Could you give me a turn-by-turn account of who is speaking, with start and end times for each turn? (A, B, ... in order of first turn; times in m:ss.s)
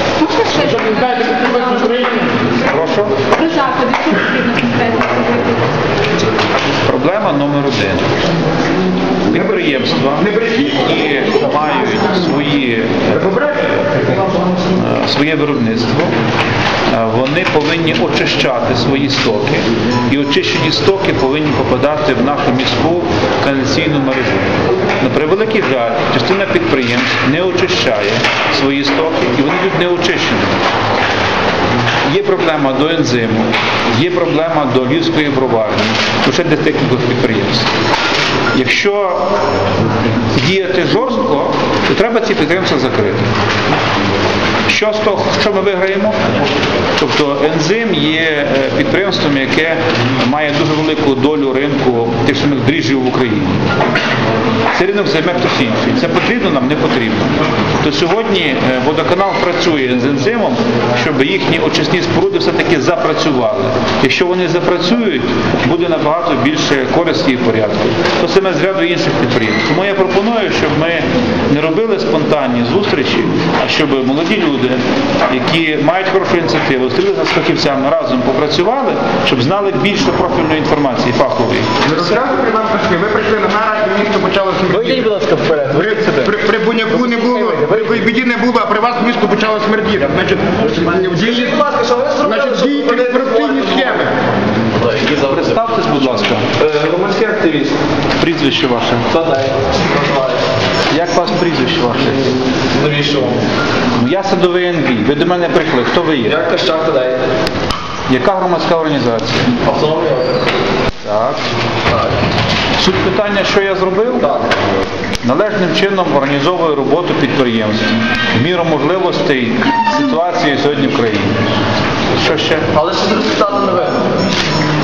0:00.3-0:02.0 A
0:00.4-0:02.5 B
0:02.6-0:03.2 C
0:03.3-0:05.8 A
0:06.8-0:08.2 C
0:09.3-0:14.1 C
0:09.3-0:12.1 B
0:13.1-0:13.7 B
0:14.7-0:16.1 C
0:16.9-0:30.6 C
0:32.0-0:37.7 C
0:38.5-0:39.3 C
0:40.1-0:43.3 C
0:44.7-0:46.4 C
0:47.0-0:53.6 C
0:54.7-1:22.0 C
1:21.8-1:31.6 B
1:24.7-1:26.4 D
1:26.9-1:28.0 D
1:31.0-1:34.1 D
1:32.2-1:34.2 B
1:34.8-1:35.6 D
1:35.2-1:36.5 C
1:36.6-1:37.8 D
1:38.2-1:39.1 C
1:39.1-1:40.4 D
1:40.9-1:42.4 C
1:42.7-1:43.4 D
1:44.0-1:46.4 C
1:46.2-1:47.3 D
1:48.1-1:49.5 C
1:49.6-1:50.5 D
1:51.0-1:51.4 C
1:52.8-1:54.3 C
1:54.2-1:54.5 D
1:55.2-2:01.4 C
2:02.1-2:02.7 C
2:02.7-2:04.1 D